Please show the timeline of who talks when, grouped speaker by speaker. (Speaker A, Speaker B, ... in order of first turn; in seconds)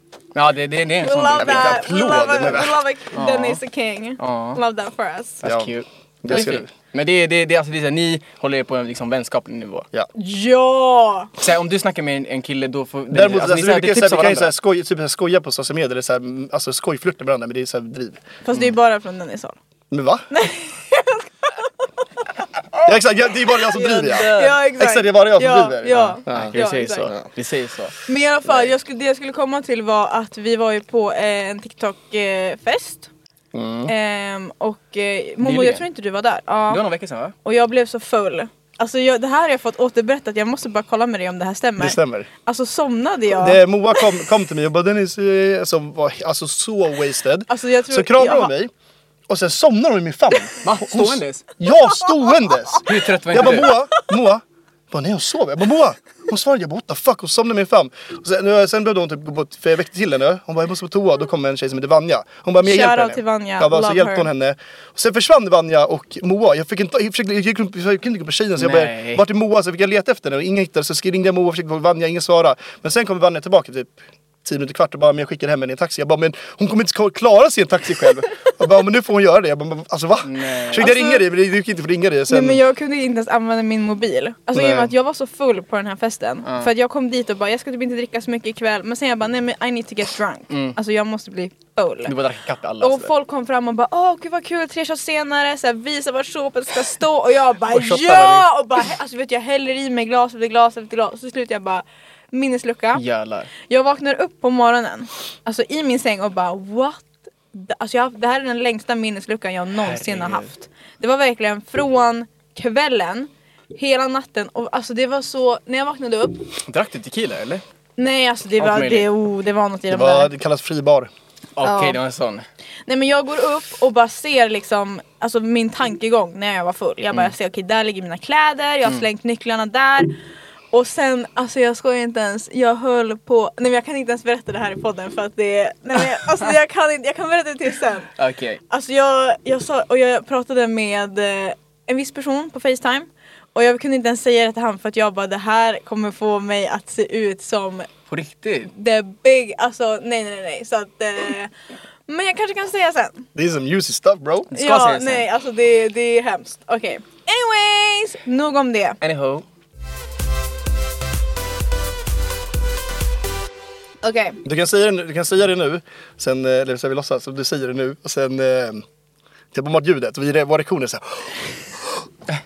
Speaker A: 0.3-1.9, 3.1-3.6, 4.2-4.6, 5.4-9.9, 11.4-14.5, 23.7-24.6, 25.9-27.9, 35.4-35.8, 36.7-37.3, 50.6-51.5, 52.9-53.8, 68.6-69.2, 80.2-80.9, 86.4-86.7, 90.5-90.8, 92.0-93.1, 97.7-98.5, 102.9-103.5, 109.8-110.5, 116.6-117.6, 118.6-119.1, 121.5-122.5, 138.2-138.6, 148.1-148.7, 154.5-155.2, 159.0-159.4
Speaker B: 1.0-5.4, 10.2-11.3, 18.4-19.6, 20.3-21.9, 24.0-27.1, 28.1-33.1, 33.9-36.8, 37.4-43.6, 47.5-48.5, 62.6-64.3, 80.7-81.2, 82.3-92.1, 92.8-103.0, 103.7-116.5, 118.0-120.3, 121.6-122.0, 122.9-130.1, 130.7-138.1, 138.7-147.9, 148.7-151.5, 152.1-153.2, 154.5-159.0, 164.0-164.4
Speaker C: 1.4-2.8, 5.4-5.7, 6.2-6.7, 13.1-18.2, 19.9-20.2, 22.8-27.2, 33.5-33.9, 41.8-42.3, 43.3-48.7, 49.3-82.6, 84.5-84.9, 119.9-121.1, 153.3-154.5, 164.4-168.8, 169.5-172.1